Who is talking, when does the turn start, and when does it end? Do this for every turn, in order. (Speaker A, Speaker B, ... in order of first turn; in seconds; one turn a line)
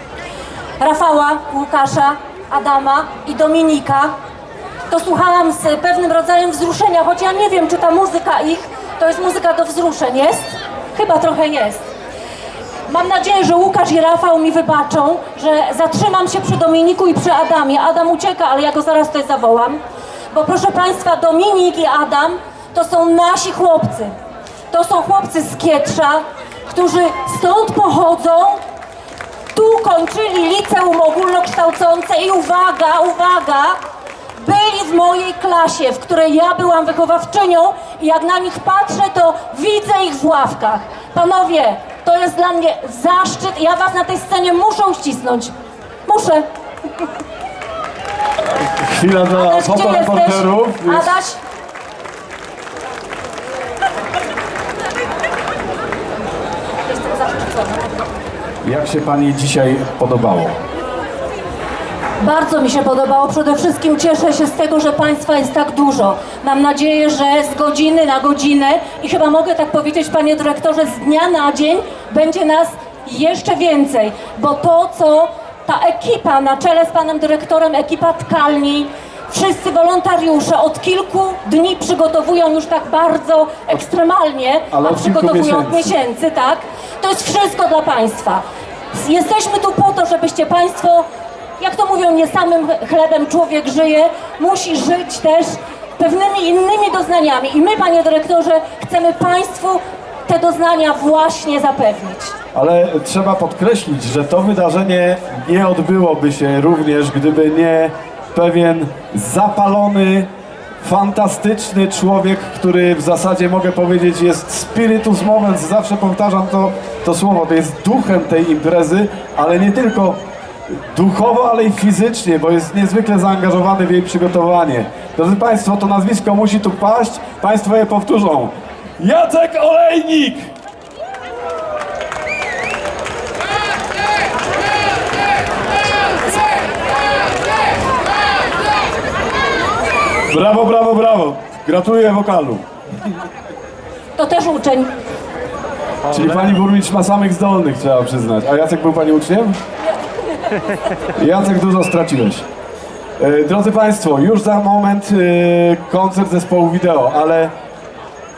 Speaker A: 0.8-4.1
Speaker A: 4.9-11.9
Speaker A: 12.9-19.8
Speaker A: 20.3-24.1
Speaker A: 24.7-28.6
Speaker A: 29.5-33.8
Speaker A: 34.4-45.5
Speaker A: 46.0-46.4
Speaker B: 48.6-51.1
Speaker A: 49.3-51.4
Speaker A: 56.9-57.7
Speaker B: 58.6-60.5
Speaker A: 62.2-91.0
Speaker B: 84.7-85.9
Speaker A: 91.6-102.3
Speaker B: 102.5-110.3
Speaker B: 110.8-130.5
Speaker B: 140.3-142.6
Speaker A: 144.2-144.9
Speaker B: 146.1-149.6
Speaker B: 151.1-152.4
Speaker B: 153.2-157.5